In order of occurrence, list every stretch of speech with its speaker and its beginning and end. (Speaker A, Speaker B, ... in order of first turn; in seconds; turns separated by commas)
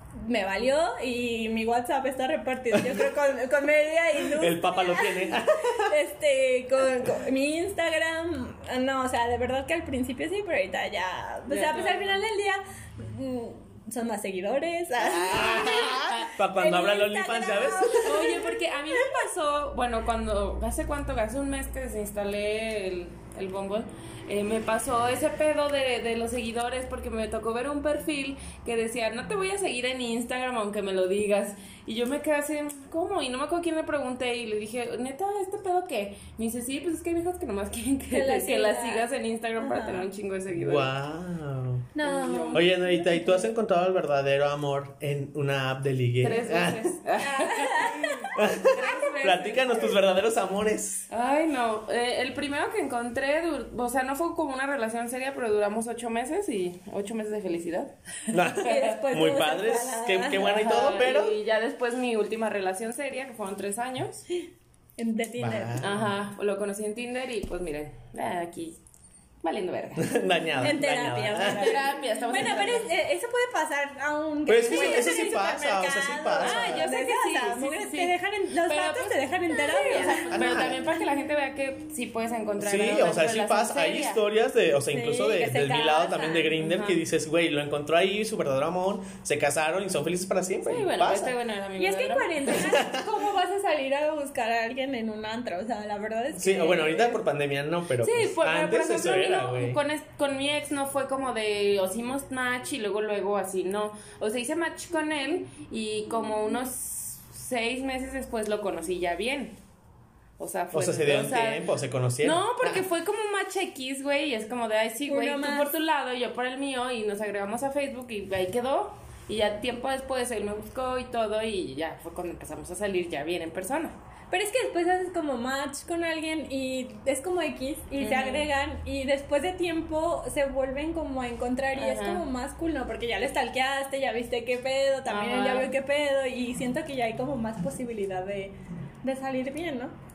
Speaker A: 0.1-19.1, Speaker B: 4.2-5.9, Speaker C: 11.5-12.2, Speaker B: 15.0-18.2, Speaker C: 15.3-16.3, Speaker C: 18.0-40.9, Speaker A: 38.1-39.1, Speaker A: 39.6-40.1, Speaker B: 40.5-41.9, Speaker A: 42.0-43.5, Speaker C: 42.0-42.7, Speaker B: 42.5-47.0, Speaker C: 46.2-50.0, Speaker A: 47.2-48.4, Speaker B: 48.4-51.1, Speaker C: 51.1-59.0, Speaker B: 58.3-61.4, Speaker A: 58.6-60.7, Speaker C: 60.4-64.2, Speaker A: 65.0-65.8, Speaker B: 65.4-66.2, Speaker C: 65.8-68.8, Speaker C: 69.4-70.2, Speaker B: 70.0-71.8, Speaker A: 70.6-80.7, Speaker C: 71.4-72.9, Speaker B: 74.5-76.9, Speaker C: 74.7-75.3, Speaker C: 76.4-84.2, Speaker B: 80.3-80.8, Speaker B: 82.6-91.3, Speaker A: 84.9-86.6, Speaker C: 86.6-87.0, Speaker C: 90.7-92.7, Speaker A: 91.8-97.2, Speaker B: 92.6-93.1, Speaker B: 96.3-99.8, Speaker C: 98.0-109.6, Speaker C: 110.4-111.7, Speaker B: 110.7-112.8, Speaker C: 112.2-124.0, Speaker A: 115.1-115.7, Speaker A: 124.3-139.9, Speaker C: 128.0-128.5, Speaker C: 131.8-132.2, Speaker C: 135.1-135.7